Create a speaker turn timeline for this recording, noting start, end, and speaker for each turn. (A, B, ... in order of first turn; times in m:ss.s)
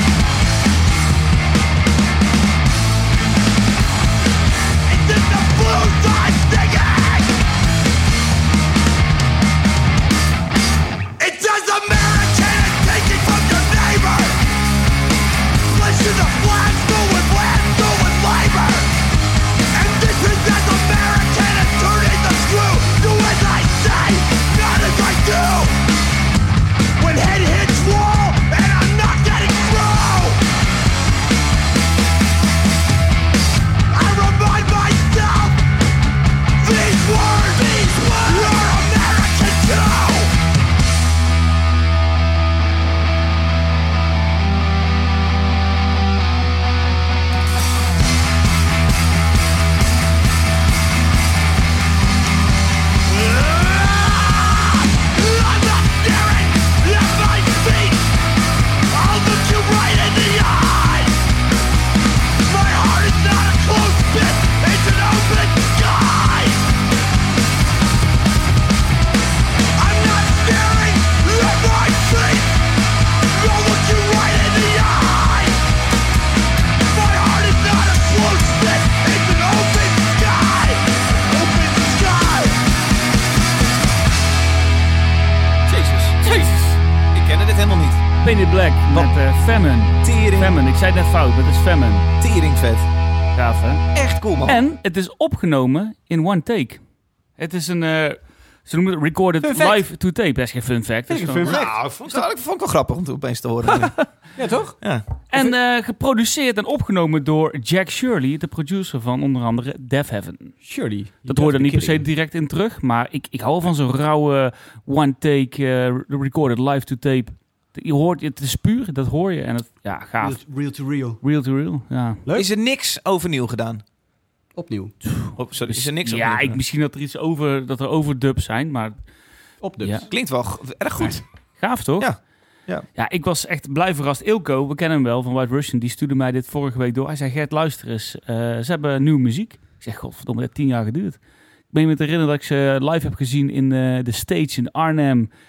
0:04.9-0:07.4 A
0:11.2-0:14.4 A
0:15.7-0:19.0 A
0:19.7-0:25.8 A
0:27.0-0:30.4 A
0:33.9-0:35.6 A
0:36.6-0:40.3 A
0:53.1-0:58.1 A
0:58.9-1:01.2 A
1:02.4-1:06.6 A
1:09.8-1:12.6 A
1:13.3-1:15.6 A
1:16.8-1:22.6 A
1:25.7-1:26.6 B
1:26.2-1:26.8 C
1:27.1-1:28.0 B
1:28.2-1:32.1 C
1:30.0-1:30.6 B
1:32.2-1:32.9 B
1:33.4-1:33.9 C
1:33.9-1:34.6 B
1:34.4-1:36.8 C
1:37.4-1:41.6 C
1:39.4-1:39.8 D
1:41.1-1:41.7 D
1:41.4-1:44.0 B
1:43.7-1:44.0 C
1:44.4-1:44.8 D
1:45.3-1:50.6 C
1:50.6-1:52.0 D
1:51.3-2:00.4 C
2:00.2-2:01.2 D
2:01.2-2:02.2 C
2:02.4-2:03.8 B
2:04.6-2:04.9 D
2:05.1-2:09.0 C
2:05.4-2:06.6 B
2:09.6-2:10.1 D
2:09.8-2:10.1 C
2:10.1-2:11.2 B
2:11.6-2:12.1 C
2:12.0-2:12.9 B
2:13.0-2:21.2 C
2:21.7-2:25.3 C